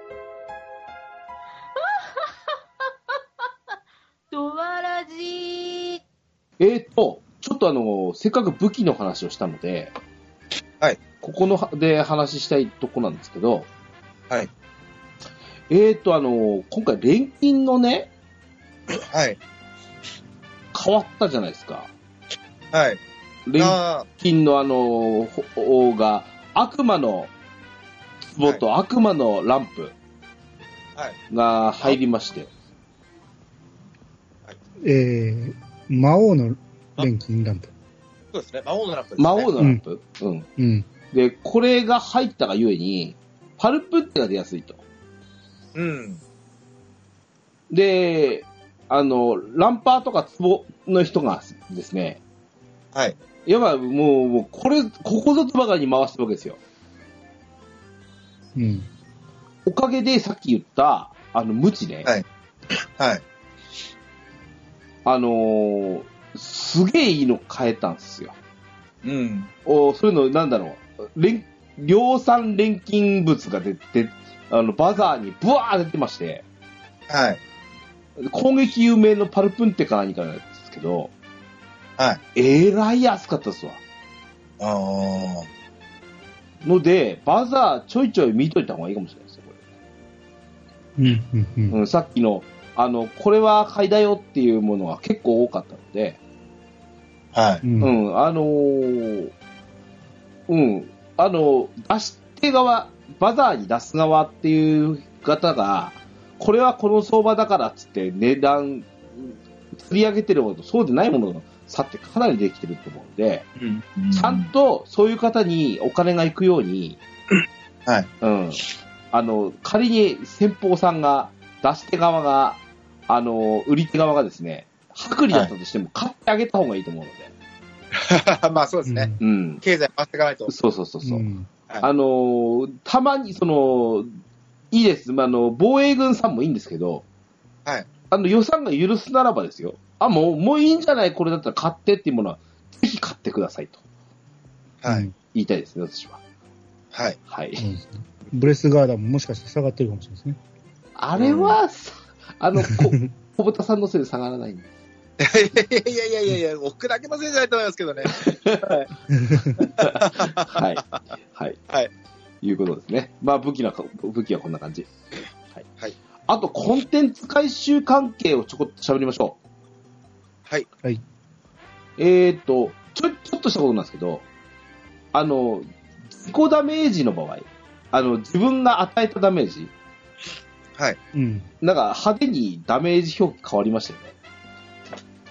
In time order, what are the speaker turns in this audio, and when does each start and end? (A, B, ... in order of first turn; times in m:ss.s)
0:01.8-0:02.3 A
0:04.3-0:06.0 A
0:06.6-0:09.9 B
0:11.2-0:13.7 B
0:15.7-0:18.1 B
0:19.0-0:19.4 C
0:20.7-0:21.9 B
0:22.7-0:23.0 C
0:23.4-0:27.3 B
0:23.6-0:24.1 C
0:28.2-0:29.9 B
0:31.3-0:32.5 B
0:34.8-0:37.7 D
0:38.3-0:39.5 C
0:39.2-0:40.5 B
0:40.6-0:40.9 D
0:41.1-0:44.8 B
0:45.7-0:46.2 C
0:47.7-0:52.2 B
0:53.4-0:56.6 B
0:58.5-0:58.9 D
0:59.6-1:02.1 B
1:02.8-1:03.2 C
1:05.0-1:08.4 B
1:09.0-1:09.5 C
1:09.6-1:16.4 B
1:17.1-1:17.4 C
1:18.2-1:21.1 B
1:22.3-1:23.8 B
1:24.6-1:25.5 C
1:26.6-1:29.6 B
1:31.0-1:31.8 D
1:31.7-1:36.2 B
1:37.3-1:37.6 C
1:37.6-1:37.9 D
1:37.8-1:39.3 B
1:40.5-1:53.4 B
1:53.6-1:54.5 C
1:54.1-1:57.0 B
1:58.2-2:07.3 B
2:07.9-2:09.1 C
2:08.9-2:09.2 D
2:09.2-2:09.6 B
2:09.6-2:10.5 C
2:10.5-2:11.2 B
2:11.0-2:11.5 D
2:11.8-2:14.1 B
2:14.7-2:17.0 B
2:18.1-2:23.8 B
2:24.8-2:25.1 C
2:24.8-2:25.1 D
2:25.3-2:26.2 B
2:26.9-2:27.2 C
2:27.3-2:27.6 B
2:27.6-2:30.4 D
2:31.0-2:34.7 B
2:31.2-2:31.6 C
2:35.2-2:38.9 C
2:38.0-2:38.8 B
2:39.1-2:39.6 D
2:39.6-2:40.8 C
2:39.8-2:41.6 B
2:42.4-2:44.9 B
2:46.3-2:49.4 B
2:52.0-2:54.2 B
2:55.1-2:59.7 B
3:01.1-3:01.5 D
3:01.6-3:04.1 B